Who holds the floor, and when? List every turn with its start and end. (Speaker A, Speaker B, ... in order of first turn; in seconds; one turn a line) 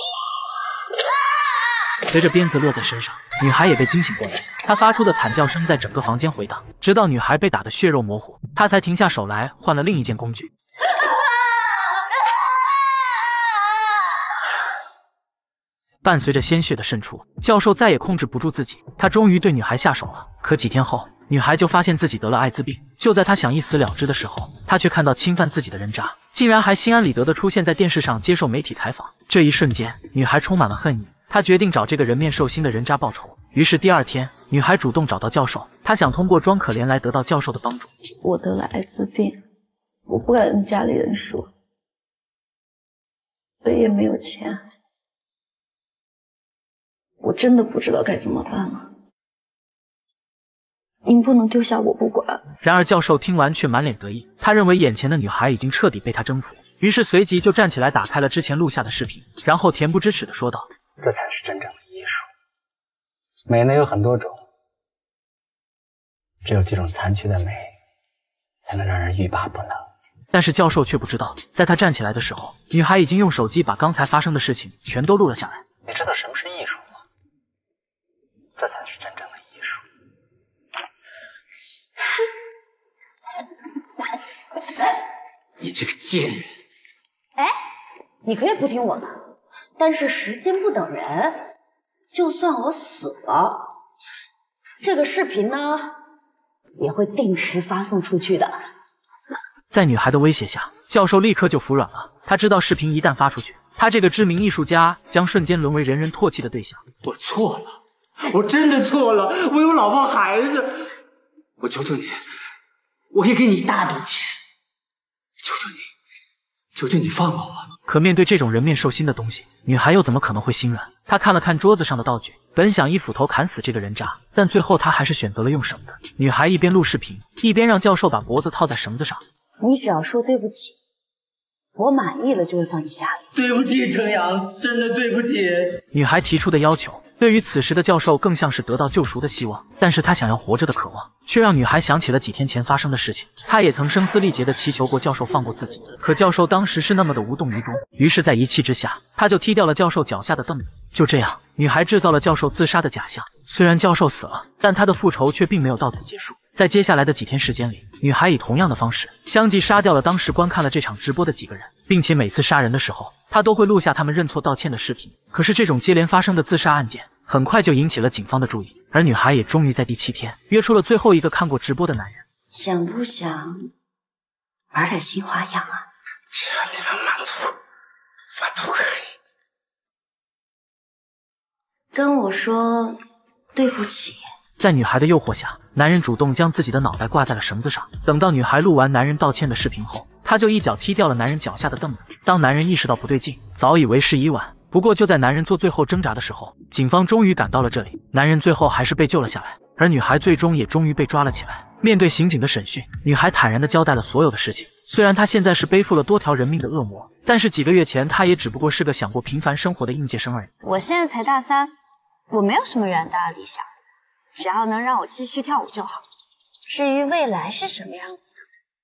Speaker A: 2.1-10.5
Speaker A: 16.0-37.9
Speaker B: 38.2-39.4
Speaker B: 40.1-41.5
Speaker B: 43.6-44.6
Speaker B: 47.2-48.9
Speaker B: 51.1-52.4
Speaker A: 52.6-60.7
Speaker C: 61.0-62.3
Speaker C: 63.5-64.4
Speaker C: 66.4-67.7
Speaker C: 68.7-69.9
Speaker A: 70.3-75.6
Speaker C: 75.9-76.9
Speaker C: 78.6-79.8
Speaker D: 85.6-86.5
Speaker E: 88.2-89.1
Speaker E: 89.8-91.5
Speaker E: 92.1-93.7
Speaker E: 94.8-95.9
Speaker E: 96.8-98.5
Speaker A: 99.7-106.8
Speaker D: 107.0-110.9
Speaker D: 111.6-112.2
Speaker D: 113.1-114.3
Speaker D: 115.4-115.8
Speaker D: 116.7-117.7
Speaker A: 117.9-129.2
Speaker E: 129.6-130.8
Speaker E: 131.8-133.2
Speaker D: 133.4-135.8
Speaker A: 135.9-172.2
Speaker E: 172.5-173.7
Speaker E: 174.7-175.9
Speaker D: 176.3-177.5
Speaker D: 178.4-179.1
Speaker E: 181.9-183.0
Speaker E: 183.5-184.2
Speaker A: 184.6-210.5
Speaker E: 210.6-211.7
Speaker E: 212.3-213.7
Speaker E: 214.3-216.1
Speaker E: 216.7-218.3